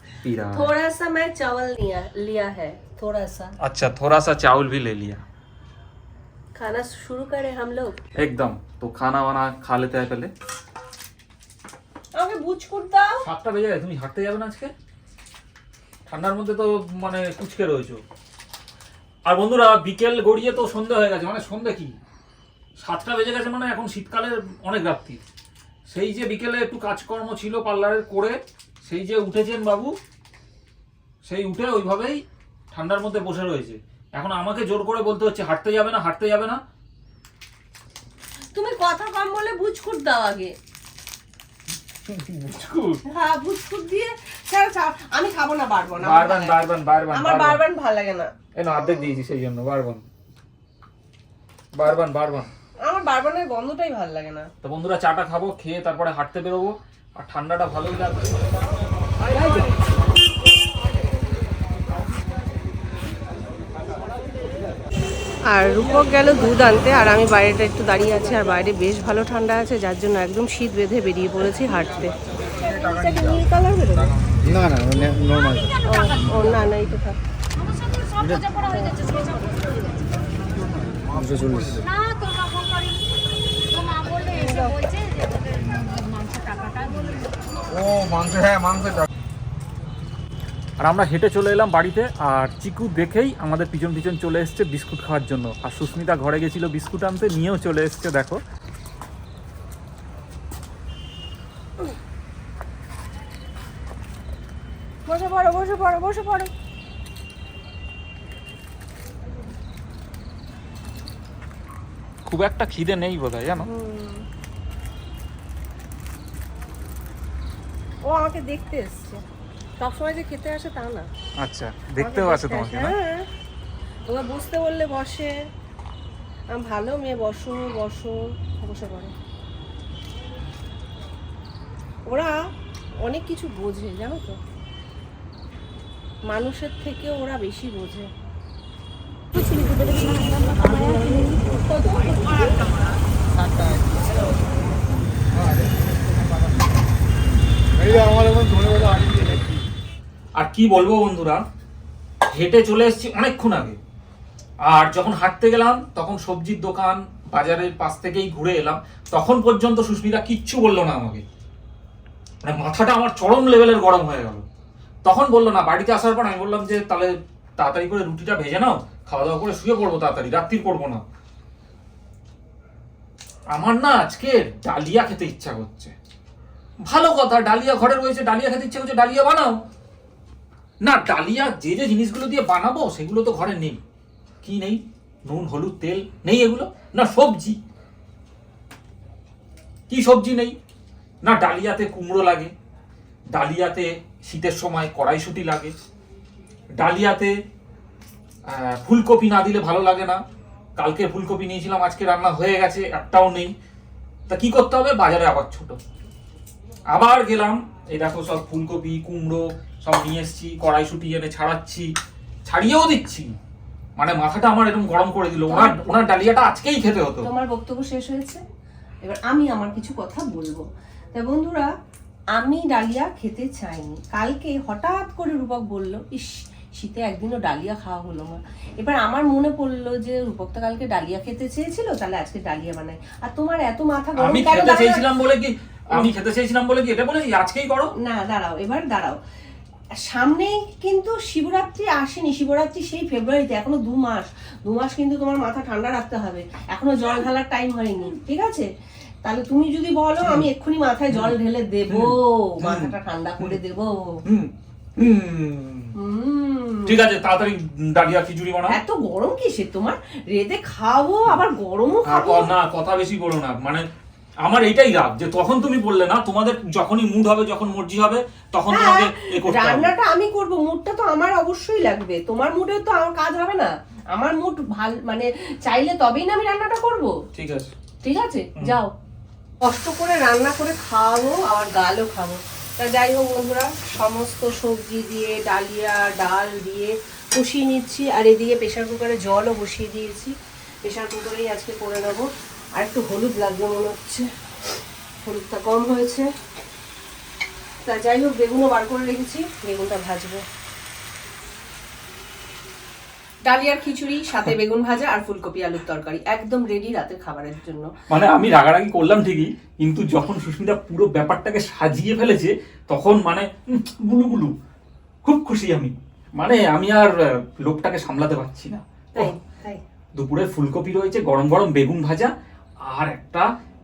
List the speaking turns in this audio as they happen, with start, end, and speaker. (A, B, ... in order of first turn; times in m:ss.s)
0:00.2-0:00.7 A
0:00.5-0:03.6 B
0:03.6-0:05.2 A
0:06.6-0:08.0 B
0:08.2-0:10.3 A
0:12.2-0:13.2 B
0:13.2-0:14.7 A
0:16.1-0:18.0 A
0:19.3-0:22.0 A
0:22.8-0:25.2 A
0:25.9-0:30.0 A
0:31.2-0:36.6 A
0:38.6-0:40.6 B
0:42.1-0:43.0 A
0:43.1-0:48.3 B
0:46.0-0:47.6 A
0:48.6-0:50.0 A
0:51.8-0:52.5 A
0:52.8-0:54.5 B
0:54.6-0:58.4 A
0:59.3-0:59.6 B
1:05.5-1:14.2 B
1:15.2-1:15.8 C
1:15.8-1:17.2 B
1:17.6-1:19.8 C
1:18.8-1:19.1 B
1:21.8-1:23.0 C
1:23.7-1:27.2 C
1:24.2-1:24.8 B
1:30.8-1:38.4 A
1:45.1-1:46.5 B
1:52.3-1:53.7 A
1:53.6-1:54.2 B
1:58.1-1:59.2 B
1:59.8-2:01.1 B
2:01.4-2:03.0 A
2:02.0-2:03.3 B
2:04.1-2:05.3 B
2:06.5-2:09.1 B
2:12.1-2:12.4 B
2:13.0-2:14.4 B
2:16.3-2:18.1 B
2:19.4-2:22.7 B
2:30.4-2:31.4 A
2:32.3-2:33.8 A
2:34.6-2:41.2 A
2:42.4-2:44.5 A
2:45.0-2:51.0 A
2:53.5-2:55.9 A
2:56.9-2:59.6 A
3:00.8-3:03.8 A
3:04.4-3:07.6 A
3:09.9-3:10.6 A
3:11.2-3:12.5 A
3:13.3-3:15.8 A
3:16.8-3:17.3 A
3:18.5-3:20.2 A
3:20.8-3:23.5 A
3:24.3-3:25.8 A
3:26.9-3:31.9 A
3:32.5-3:33.4 A
3:34.0-3:37.3 A
3:35.5-3:36.0 B
3:37.2-3:38.4 B
3:39.0-3:41.7 B
3:42.4-3:55.1 B
3:54.2-3:57.9 A
3:58.0-3:59.2 B
4:00.0-4:08.7 B
4:09.2-4:14.2 B
4:10.2-4:10.5 A
4:11.1-4:13.6 A
4:14.2-4:16.0 A
4:16.0-4:17.0 B
4:16.9-4:18.8 A
4:18.7-4:22.5 B
4:22.1-4:23.9 A
4:24.4-4:30.0 A
4:28.7-4:37.1 B
4:37.3-4:37.7 A
4:38.0-4:38.9 B
4:39.6-4:54.3 B
4:55.2-4:56.3 B
4:57.9-5:00.4 B
5:03.4-5:07.9 B
5:08.1-5:14.5 A
5:15.2-5:19.3 A
5:19.2-5:19.8 B
5:20.2-5:22.3 A
5:22.8-5:23.5 A